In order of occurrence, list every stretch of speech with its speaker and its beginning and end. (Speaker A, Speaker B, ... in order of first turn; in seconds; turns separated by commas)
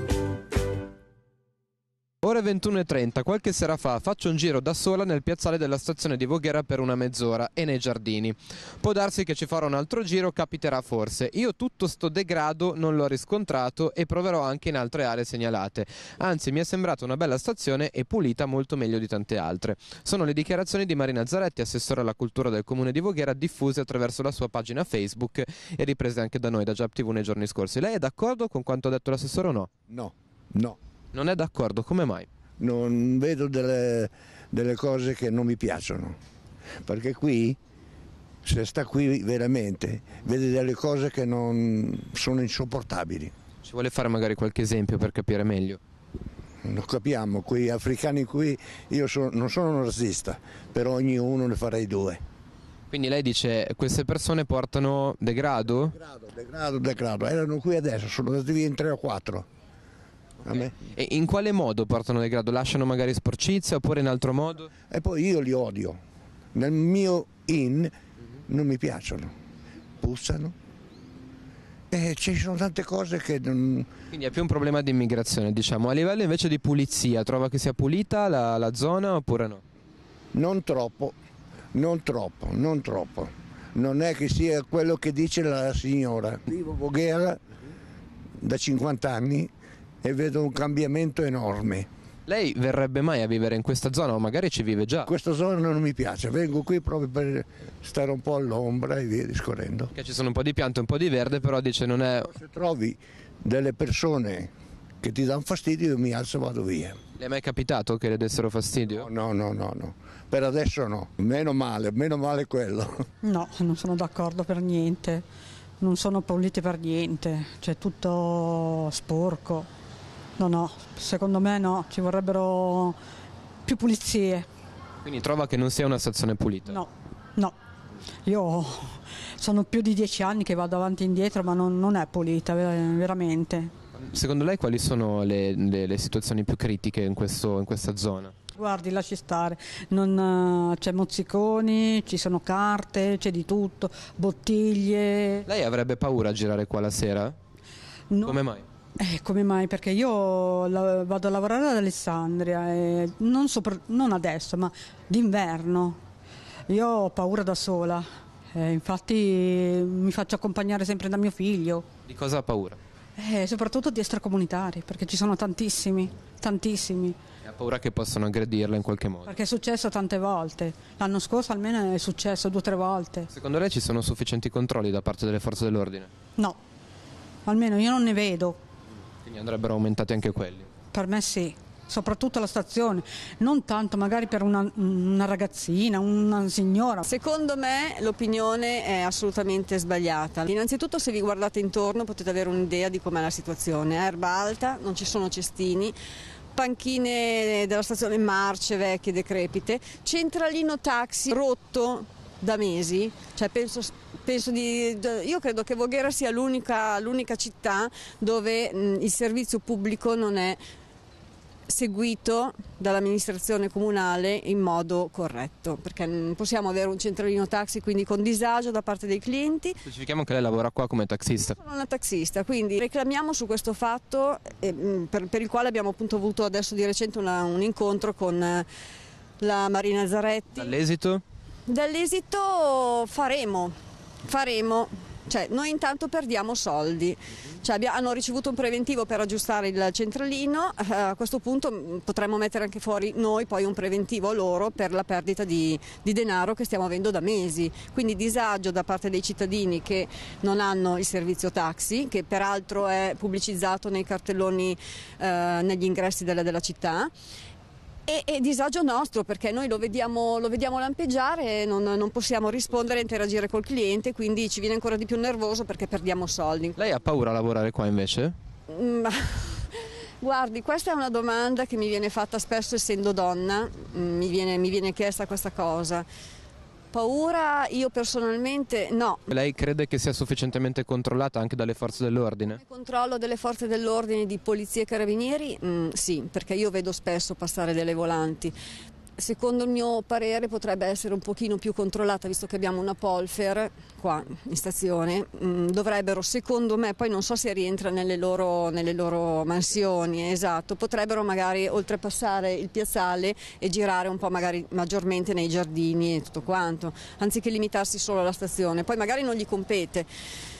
Speaker A: 2.2-29.7, Speaker B: 29.9-30.8, Speaker A: 31.1-32.3, Speaker B: 32.6-36.2, Speaker B: 36.8-37.6, Speaker B: 38.4-43.3, Speaker A: 43.6-45.8, Speaker B: 46.6-52.2, Speaker A: 52.9-56.0, Speaker B: 55.9-59.5, Speaker A: 60.4-64.7, Speaker B: 60.4-60.7, Speaker B: 64.9-66.0, Speaker B: 66.5-67.9, Speaker B: 68.5-69.3, Speaker B: 70.0-70.5, Speaker B: 71.9-73.9, Speaker A: 74.1-79.6, Speaker B: 80.3-81.1, Speaker B: 81.7-87.4, Speaker B: 88.4-89.5, Speaker B: 90.0-91.9, Speaker A: 92.3-95.1, Speaker B: 95.0-99.9, Speaker A: 99.9-102.3, Speaker B: 102.3-107.0, Speaker A: 107.2-109.1, Speaker B: 109.0-113.0, Speaker C: 113.2-115.2, Speaker C: 115.8-119.7, Speaker C: 120.4-123.0, Speaker C: 123.7-124.5, Speaker A: 125.0-126.8, Speaker C: 126.7-127.5, Speaker C: 128.2-133.7, Speaker A: 134.0-138.3, Speaker C: 138.6-145.4, Speaker A: 145.4-147.3, Speaker C: 148.1-148.4, Speaker A: 148.2-148.6, Speaker C: 149.0-156.0, Speaker C: 156.7-161.8, Speaker A: 162.1-162.8, Speaker C: 163.2-167.2, Speaker A: 167.4-169.3, Speaker C: 169.2-173.3, Speaker A: 173.3-176.1, Speaker C: 177.4-178.6, Speaker A: 179.2-180.7, Speaker C: 180.9-187.0, Speaker D: 187.0-195.9, Speaker D: 196.5-210.6, Speaker D: 211.7-219.8, Speaker A: 219.8-221.6, Speaker D: 221.5-228.7, Speaker D: 229.4-230.8, Speaker A: 230.6-231.2, Speaker D: 231.7-257.1, Speaker D: 258.1-266.8, Speaker A: 266.8-268.4, Speaker D: 268.7-276.0, Speaker D: 276.9-279.3, Speaker A: 279.3-282.6, Speaker D: 282.5-288.5, Speaker D: 289.2-310.1